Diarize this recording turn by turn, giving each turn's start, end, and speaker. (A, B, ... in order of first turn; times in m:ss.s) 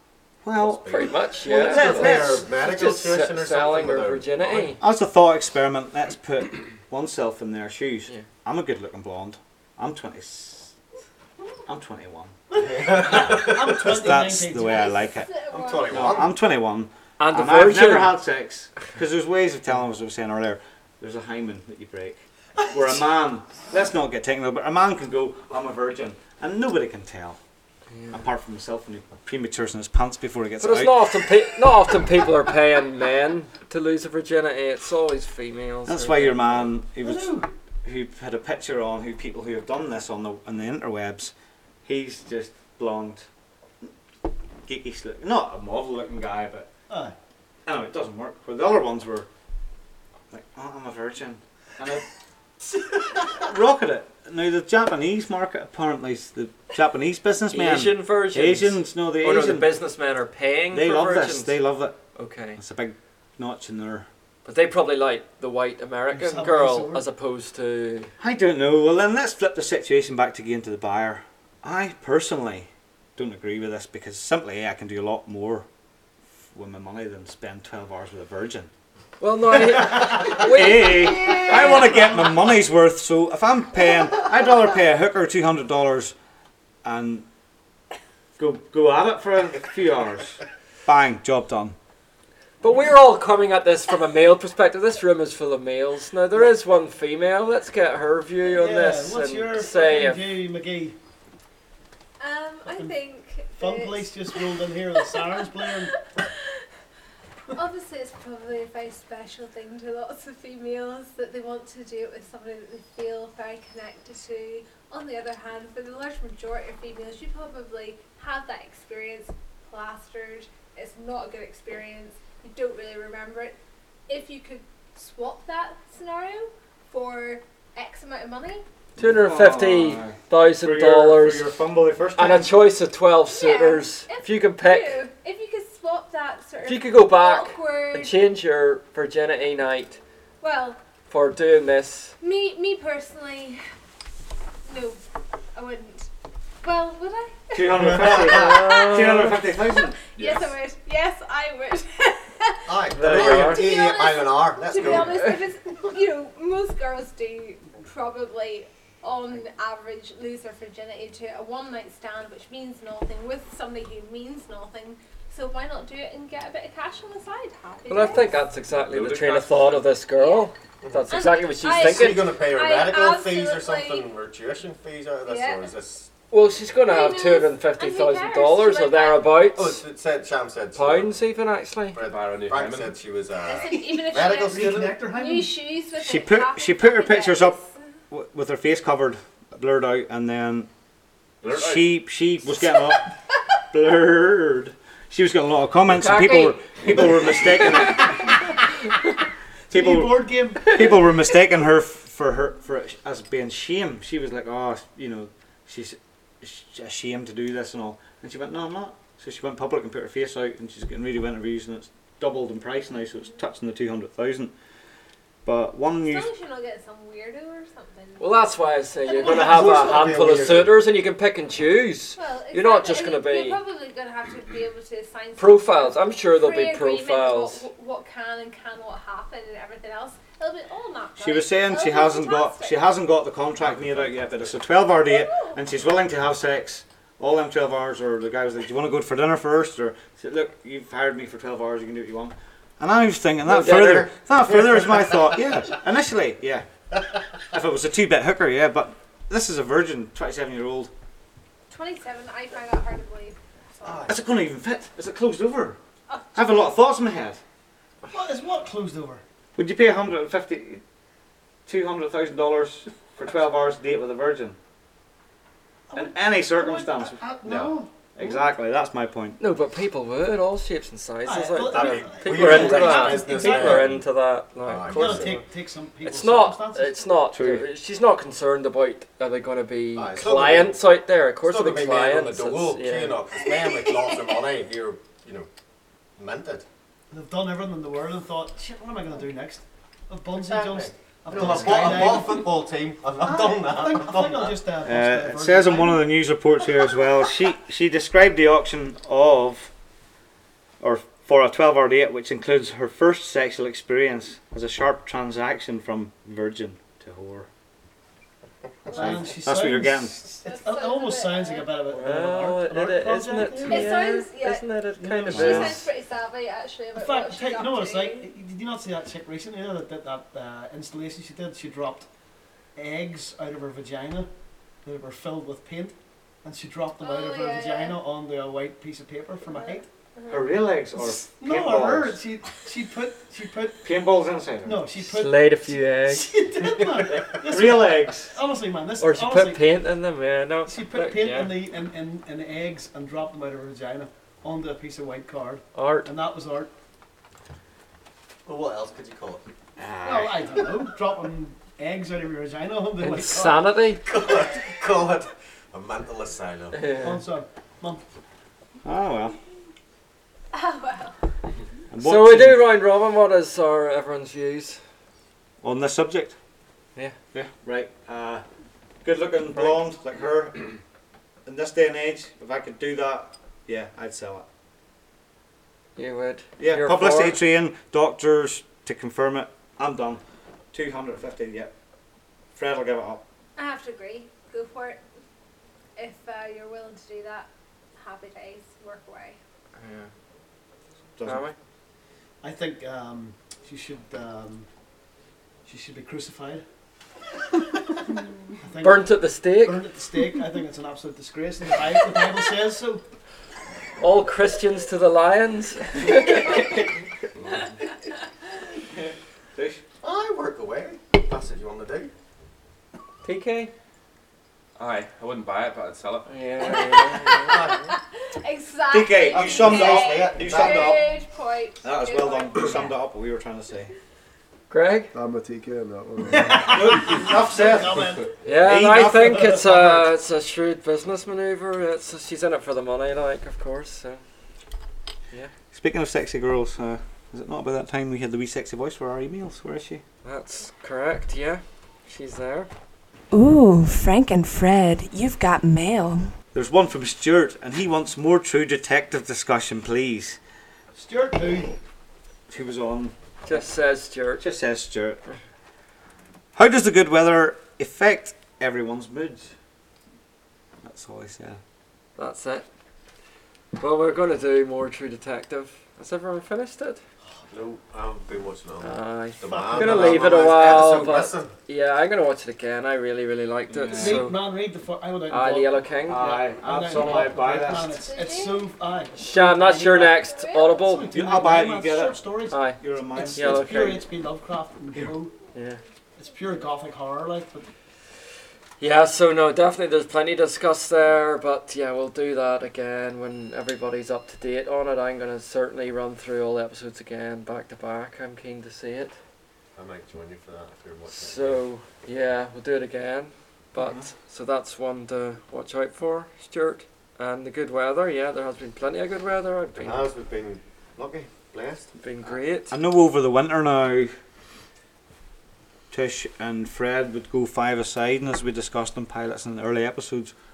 0:00.4-0:02.4 A
0:00.6-0:04.6 B
0:00.8-0:04.8 C
0:04.8-0:10.7 A
0:11.7-0:12.3 A
0:12.5-0:13.9 B
0:12.5-0:14.9 D
0:13.3-0:15.3 A
0:14.6-0:16.2 E
0:15.5-0:16.4 B
0:15.9-0:27.4 A
0:17.2-0:18.1 C
0:28.1-0:31.3 A
0:30.6-0:36.7 C
0:35.9-0:41.3 A
0:37.0-0:37.5 D
0:41.8-0:43.2 A
0:44.7-0:46.7 A
0:46.9-0:47.1 D
0:47.7-0:49.3 A
0:50.3-0:52.0 A
0:52.9-0:59.7 A
0:57.5-1:01.6 C
1:00.7-1:02.0 A
1:02.1-1:02.6 C
1:02.6-1:04.1 A
1:04.4-1:08.1 C
1:06.1-1:07.0 D
1:08.2-1:15.7 A
1:16.5-1:18.7 A
1:19.2-1:22.2 C
1:19.5-1:26.1 A
1:26.8-1:27.2 A
1:28.4-1:31.8 A
1:32.6-1:40.3 C
1:38.5-1:41.0 D
1:42.2-1:46.3 E
1:43.6-1:45.9 D
1:47.5-2:03.6 E
2:04.1-2:08.6 E
2:09.0-2:11.5 C
2:09.0-2:12.5 A
2:12.2-2:15.0 C
2:13.3-2:18.3 E
2:16.6-2:20.0 C
2:20.4-2:20.8 E
2:21.1-2:22.1 C
2:22.2-2:23.6 E
2:24.7-2:25.0 E
2:25.6-2:26.1 E
2:26.6-2:48.5 E
2:27.5-2:30.0 A
2:27.9-2:28.2 B
2:28.2-2:29.3 C
2:30.2-2:30.5 F
2:32.7-2:35.3 B
2:32.9-2:33.7 C
2:34.9-2:35.3 C
2:47.9-2:52.3 C
2:48.1-2:49.9 F
2:50.0-2:50.5 E
2:50.8-2:51.1 B
2:51.1-2:54.1 E
2:51.7-2:56.1 B
2:55.2-2:55.7 E
2:56.3-2:59.8 C
2:56.8-2:59.5 E
2:59.6-3:01.2 B
3:00.7-3:02.0 C
3:02.0-3:05.0 B
3:02.0-3:02.9 F
3:03.4-3:07.8 E
3:04.4-3:05.5 D
3:06.0-3:07.6 A
3:08.1-3:10.7 A
3:11.4-3:11.8 F
3:11.4-3:13.1 A
3:13.7-3:18.4 A
3:15.9-3:16.6 C
3:19.7-3:21.0 D
3:19.7-3:34.5 A
3:35.4-3:36.3 A
3:36.0-3:38.4 E
3:38.2-3:43.6 C
3:39.0-3:40.3 E
3:39.1-3:40.8 B
3:42.1-3:52.8 E
3:45.4-3:47.7 C
3:51.2-4:06.6 A
3:53.6-3:54.6 F
3:55.0-3:55.6 E
4:03.5-4:04.1 C
4:04.5-4:04.9 B
4:07.4-4:10.9 A
4:11.7-4:14.1 E
4:13.8-4:14.2 B
4:14.1-4:15.8 A
4:16.3-4:17.4 A
4:18.1-4:19.2 D
4:19.6-4:20.8 A
4:21.7-4:24.6 A
4:25.9-4:28.4 D
4:25.9-4:27.2 A
4:27.4-4:27.8 B
4:28.2-4:29.4 A
4:29.4-4:35.4 C
4:31.3-4:33.9 D
4:31.7-4:34.0 B
4:34.6-4:35.4 B
4:34.9-4:37.0 D
4:36.0-4:43.2 C
4:37.3-4:37.6 A
4:40.0-4:40.8 B
4:41.4-4:45.5 B
4:46.2-4:46.6 B
4:47.1-4:52.6 D
4:50.3-4:54.6 B
4:53.2-4:56.1 D
4:54.8-4:59.7 A
5:00.8-5:07.5 A
5:08.9-5:09.4 E
5:08.9-5:14.1 D
5:09.0-5:10.2 A
5:10.4-5:11.7 E
5:11.9-5:15.7 C
5:13.7-5:14.7 E
5:15.0-5:15.6 D
5:15.3-5:18.3 E
5:15.3-5:15.8 A
5:17.0-5:22.1 D
5:22.8-5:24.3 D
5:24.8-5:29.9 D
5:27.0-5:28.0 E
5:29.5-5:30.5 E
5:30.3-5:32.2 A
5:31.0-5:33.8 D
5:33.8-5:34.8 A
5:34.6-5:35.5 D
5:35.0-5:36.3 C
5:36.1-5:39.6 D
5:37.2-5:38.3 A
5:39.0-5:41.6 C
5:40.7-5:46.7 D
5:45.7-5:46.1 C
5:48.4-5:49.4 B
5:49.8-5:50.6 A
5:50.0-5:53.7 D
5:53.0-5:54.0 C
5:54.0-5:56.8 B
5:56.7-5:57.2 C
5:57.0-5:58.0 D
5:58.8-5:59.4 A
6:00.5-6:01.1 E
6:01.9-6:02.7 A
6:02.0-6:04.8 C
6:05.6-6:06.4 A
6:07.3-6:08.4 A
6:09.0-6:10.7 A
6:11.4-6:14.4 A
6:16.0-6:17.4 C
6:16.6-6:20.2 A
6:20.7-6:21.7 A
6:22.6-6:23.2 A
6:23.6-6:25.0 E
6:26.0-6:29.4 E
6:29.8-6:30.1 C
6:31.2-6:31.4 A
6:31.2-6:31.6 C
6:32.4-6:34.7 D
6:35.6-6:36.6 D
6:38.6-6:43.0 D
6:38.8-6:39.8 C
6:44.0-6:46.7 C
6:46.6-6:46.8 A
6:49.6-6:49.8 A
6:50.0-6:52.1 B
6:53.2-6:53.7 C
6:54.8-6:56.3 F
6:56.3-6:57.7 C
6:57.5-7:03.0 E
6:57.6-6:57.9 B
6:58.9-7:01.0 A
6:59.3-7:01.1 B
7:01.8-7:03.9 A
7:04.7-7:05.1 C
7:05.1-7:07.0 G
7:06.3-7:08.3 D
7:06.7-7:10.0 A
7:08.4-7:14.2 C
7:09.3-7:09.7 D
7:15.7-7:20.0 A
7:20.2-7:22.7 C
7:23.3-7:26.3 H
7:26.5-7:30.4 A
7:30.9-7:31.8 D
7:32.5-7:33.6 A
7:33.4-7:34.4 C
7:34.4-7:35.2 A
7:36.6-7:39.5 A
7:40.8-7:41.6 A
7:42.2-7:42.7 C
7:43.8-7:47.0 C
7:47.5-7:51.6 B
7:48.8-7:54.4 C
7:49.5-7:51.0 D
7:53.7-7:54.3 A
7:54.0-8:00.2 D
7:55.3-7:56.3 C
7:56.1-7:58.0 A
7:58.0-7:58.7 E
7:59.2-8:01.1 C
8:00.2-8:00.9 E
8:00.8-8:05.3 D
8:01.1-8:04.0 A
8:02.5-8:04.0 C
8:05.5-8:05.8 C
8:06.2-8:07.7 D
8:08.8-8:19.1 C
8:19.8-8:21.6 B
8:21.1-8:30.1 C
8:29.8-8:31.9 B
8:32.0-8:32.7 C
8:32.7-8:34.1 A
8:35.9-8:40.3 A